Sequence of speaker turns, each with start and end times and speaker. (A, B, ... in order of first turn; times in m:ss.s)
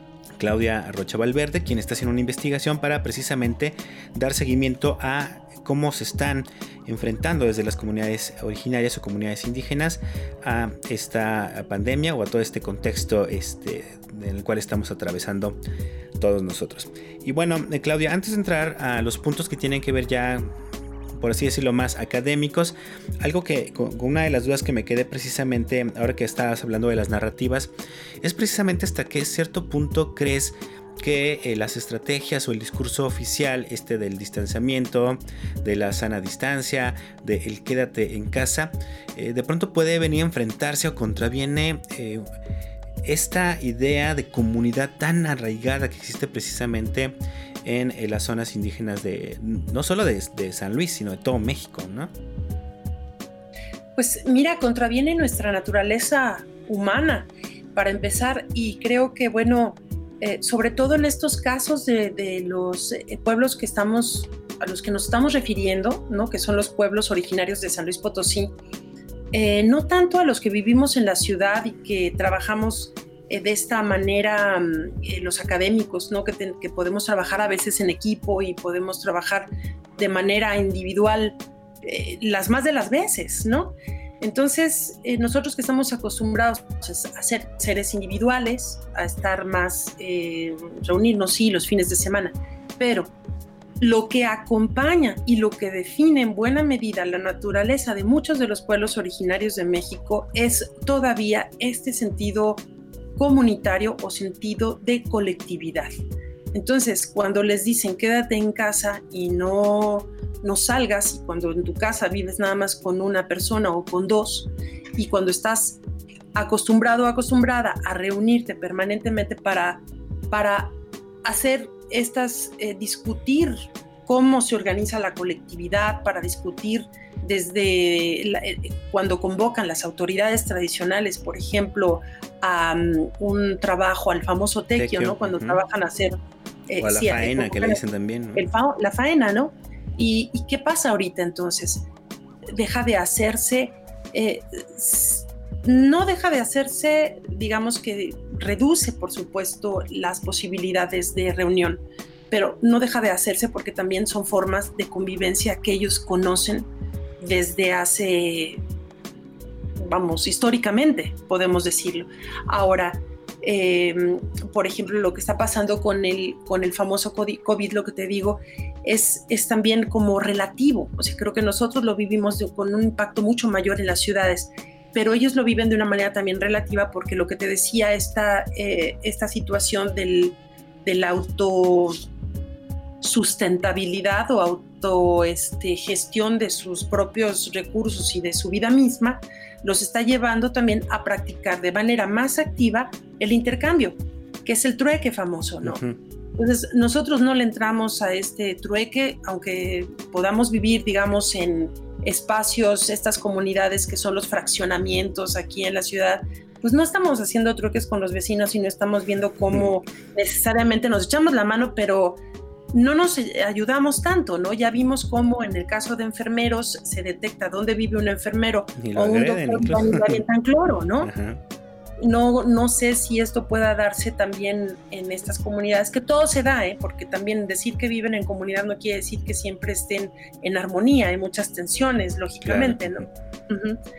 0:00.4-0:15.6 A
0:16.2-0:20.5 A
0:21.2-0:27.7 A
0:28.2-0:42.3 A
0:43.0-0:52.1 A
0:54.0-1:08.5 B
1:09.3-1:33.1 B
1:33.8-1:42.6 B
1:43.2-1:45.9 B
1:46.5-1:55.8 B
1:56.3-2:17.8 B
2:14.7-2:15.6 A
2:16.8-2:18.4 A
2:18.3-2:21.8 B
2:22.5-2:36.7 B
2:37.2-2:38.6 B
2:39.8-3:02.0 B
3:03.0-3:15.8 B
3:15.6-3:16.0 A
3:16.4-3:32.2 B
3:32.7-3:41.1 B
3:38.8-3:40.2 A
3:41.0-3:41.4 A
3:42.0-3:53.8 B
3:52.4-3:53.0 A